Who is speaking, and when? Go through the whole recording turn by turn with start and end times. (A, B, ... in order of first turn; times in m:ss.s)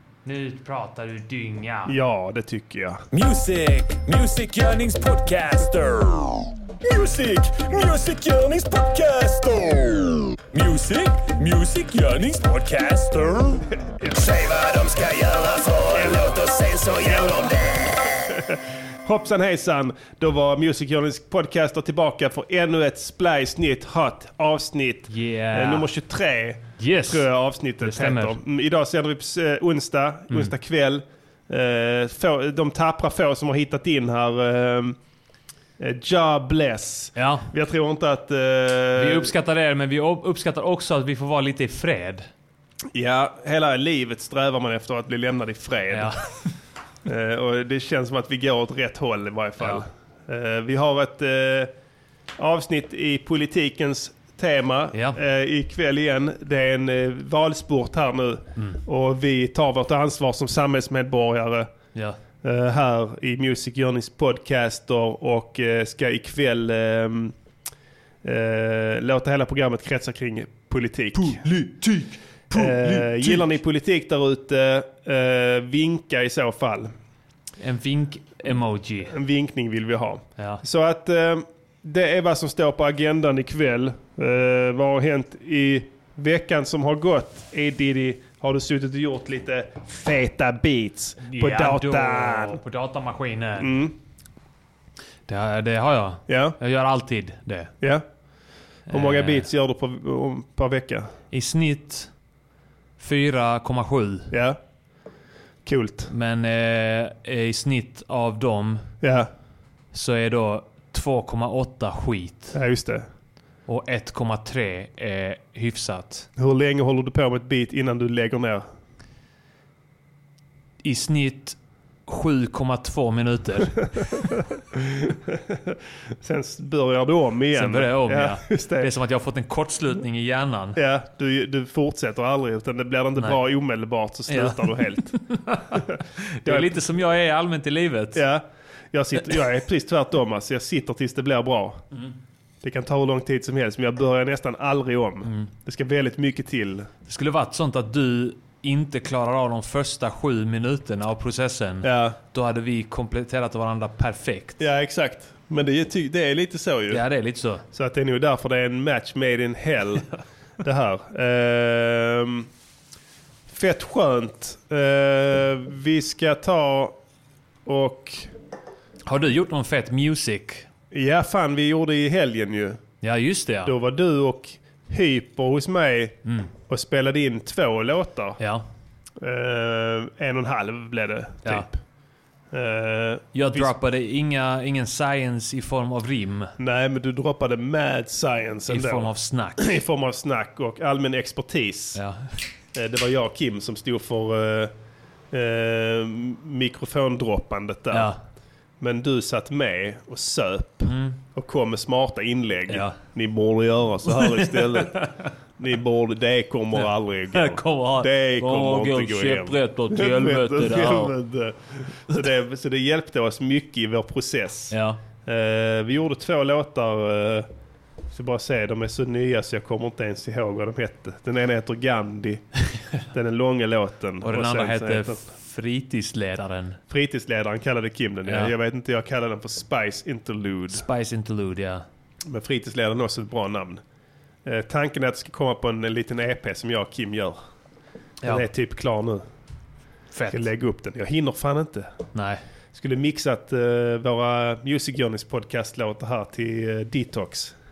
0:00.2-0:01.9 A
0:01.8-0:03.0 B
0:03.1-0:18.0 C
0:18.5-0:35.0 B
0:25.1-0:25.9 A
0:26.8-0:27.3 A
0:27.8-0:28.4 A
0:35.8-0:39.3 B
0:37.1-0:37.5 A
0:39.0-0:42.3 A
0:42.9-0:46.1 B
0:45.9-0:46.2 A
0:47.0-0:51.7 B
0:49.6-0:49.8 A
0:52.4-1:01.7 B
0:54.9-0:55.2 A
1:02.4-1:07.3 B
1:08.2-1:11.4 B
1:11.5-1:11.9 C
1:12.5-1:16.9 B
1:17.6-1:19.1 A
1:19.1-1:32.6 B
1:20.4-1:20.6 A
1:31.2-1:33.7 A
1:33.6-1:34.0 B
1:35.2-1:37.7 A
1:36.3-1:36.6 B
1:38.9-1:39.5 A
1:38.9-1:41.1 B
1:41.3-1:42.1 A
1:43.0-1:44.3 A
1:44.3-1:44.6 B
1:45.6-1:46.1 B
1:46.1-1:48.9 A
1:49.0-1:49.3 B
1:49.9-1:52.6 A
1:52.5-1:53.0 B
1:53.7-1:56.3 A
1:56.4-1:58.6 B
2:00.8-2:04.0 A
2:04.8-2:08.9 B
2:07.5-2:10.8 A
2:10.8-2:15.2 B
2:14.3-2:18.2 A
2:15.7-2:16.8 B
2:18.2-2:21.8 B
2:22.6-2:26.9 B
2:27.1-2:34.6 A
2:31.8-2:32.2 B
2:34.6-2:37.0 B
2:36.9-2:37.6 A
2:37.7-2:40.1 B
2:40.6-2:42.5 B
2:43.5-2:47.0 B
2:47.7-2:48.3 B
2:49.1-2:50.7 A
2:50.9-2:52.8 B
2:53.0-2:53.7 A
2:53.6-2:56.2 B
2:56.2-2:56.5 A
2:56.7-2:58.4 B
2:58.4-2:58.7 A
2:59.2-3:01.8 B
3:02.5-3:03.7 B
3:03.3-3:06.5 A
3:06.6-3:12.0 B
3:08.7-3:09.6 A
3:12.0-3:12.3 A
3:12.7-3:14.7 B
3:15.3-3:18.1 B
3:17.9-3:18.2 A
3:18.8-3:25.0 B
3:20.9-3:21.2 A
3:22.7-3:23.0 A
3:24.1-3:25.3 A
3:25.6-3:37.5 B
3:26.8-3:31.2 A
3:34.7-3:35.0 A
3:38.1-3:42.4 B
3:43.1-3:45.2 B
3:44.2-3:46.8 A
3:46.9-3:50.8 B
3:48.3-3:48.5 A
3:50.7-3:51.8 A
3:52.3-3:53.8 B
3:54.4-3:57.4 B
3:58.2-3:59.2 B
4:00.1-4:00.5 A
4:00.3-4:01.9 B
4:02.1-4:02.4 A
4:02.7-4:07.5 B